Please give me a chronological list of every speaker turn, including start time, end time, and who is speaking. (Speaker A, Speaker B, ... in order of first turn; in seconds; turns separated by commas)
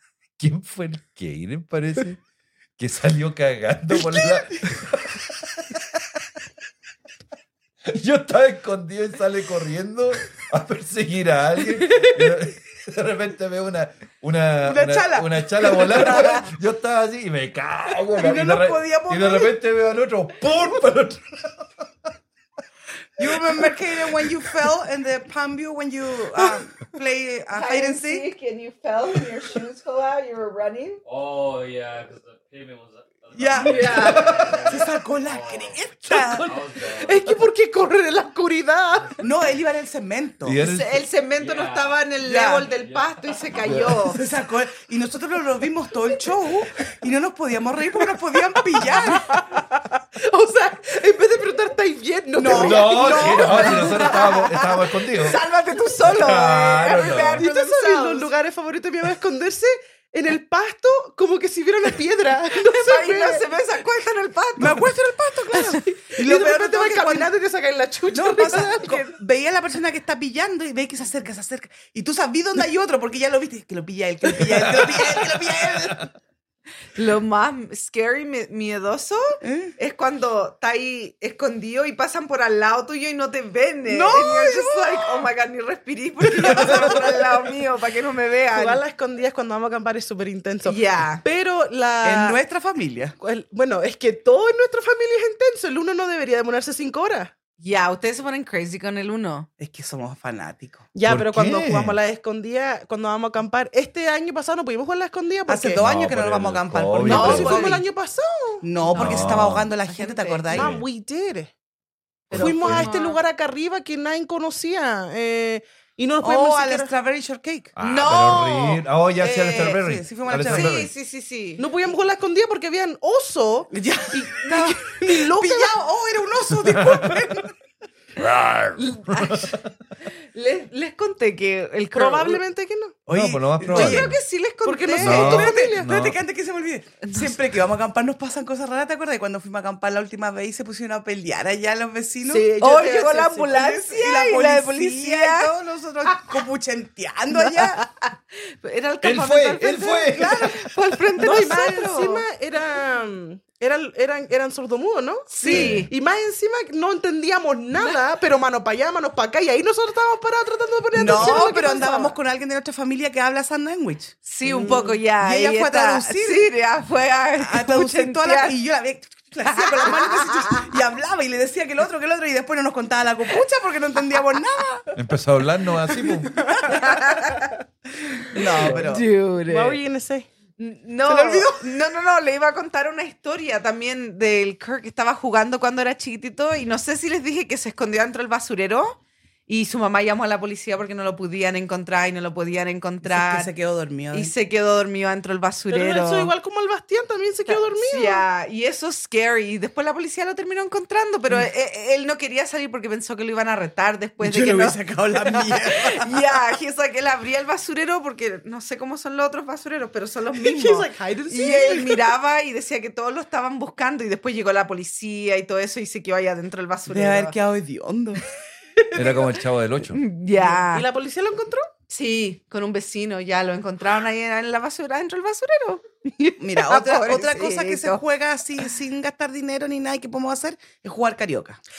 Speaker A: 0.4-2.2, Speaker A: 2.8-6.0, Speaker A: 7.9-21.7, Speaker B: 14.6-16.5, Speaker B: 18.1-19.6, Speaker B: 23.2-28.3, Speaker C: 27.5-31.0, Speaker D: 31.1-37.4, Speaker B: 33.4-36.5, Speaker C: 33.6-34.4, Speaker A: 34.2-34.6, Speaker E: 36.1-39.1, Speaker B: 39.2-40.6, Speaker A: 40.4-41.0, Speaker C: 40.6-44.2, Speaker D: 41.4-43.8, Speaker B: 42.2-42.7, Speaker A: 43.6-44.0, Speaker B: 44.1-49.4, Speaker E: 48.8-54.3, Speaker B: 52.3-54.0, Speaker A: 52.5-55.4, Speaker C: 53.0-58.3, Speaker A: 56.0-57.5, Speaker E: 57.4-63.5, Speaker C: 62.5-64.9, Speaker B: 64.6-67.3, Speaker E: 65.5-69.1, Speaker B: 68.1-76.1, Speaker C: 68.5-69.0, Speaker A: 74.5-76.1, Speaker C: 76.9-88.8, Speaker B: 79.4-79.8, Speaker B: 83.9-85.1, Speaker B: 86.5-87.1, Speaker E: 88.5-92.4, Speaker C: 90.7-91.2, Speaker B: 92.0-93.2, Speaker E: 93.2-97.3, Speaker C: 97.6-99.5, Speaker B: 99.6-100.9, Speaker E: 101.0-105.8, Speaker A: 101.0-102.0, Speaker B: 105.5-107.8, Speaker A: 105.8-107.7, Speaker E: 107.0-108.7, Speaker C: 107.1-107.8, Speaker B: 108.6-110.8, Speaker C: 108.8-110.5, Speaker A: 109.0-109.7, Speaker A: 110.5-110.9, Speaker E: 110.5-111.5, Speaker C: 112.3-113.2, Speaker E: 112.3-116.9, Speaker A: 112.3-112.9, Speaker B: 116.2-117.7, Speaker A: 117.8-120.9, Speaker C: 117.8-118.8, Speaker B: 119.2-120.8, Speaker C: 120.5-121.7, Speaker E: 121.6-125.7, Speaker B: 123.7-127.5, Speaker C: 124.2-124.7, Speaker A: 126.7-127.2, Speaker A: 128.2-129.7, Speaker C: 128.8-132.4, Speaker E: 131.9-133.0, Speaker B: 133.1-134.2, Speaker A: 133.1-134.2, Speaker C: 133.7-135.4, Speaker E: 134.6-135.9, Speaker A: 135.0-136.2, Speaker B: 135.1-142.6, Speaker C: 137.0-137.4, Speaker C: 142.3-145.5, Speaker E: 142.3-143.5, Speaker B: 143.5-147.8, Speaker C: 147.3-152.3, Speaker A: 149.0-150.7, Speaker B: 150.1-150.5, Speaker E: 151.2-162.1, Speaker C: 155.3-155.9, Speaker A: 155.5-155.9, Speaker B: 160.9-166.5, Speaker C: 161.2-161.7, Speaker C: 164.2-168.6, Speaker E: 164.5-164.8, Speaker B: 167.4-174.9, Speaker C: 169.5-170.7, Speaker A: 174.9-176.5, Speaker E: 175.9-177.5, Speaker C: 176.6-177.5, Speaker B: 178.2-179.1, Speaker C: 178.3-179.8, Speaker E: 179.4-180.3, Speaker C: 180.6-193.5, Speaker E: 181.1-181.6, Speaker B: 193.0-194.3, Speaker C: 194.1-196.3, Speaker E: 195.7-198.2, Speaker C: 197.5-217.3, Speaker B: 204.2-206.1, Speaker E: 210.4-212.1, Speaker B: 216.9-218.2, Speaker E: 218.8-219.3, Speaker A: 218.9-220.0, Speaker C: 219.9-220.9, Speaker E: 220.3-221.7, Speaker C: 221.9-228.0, Speaker B: 226.4-231.6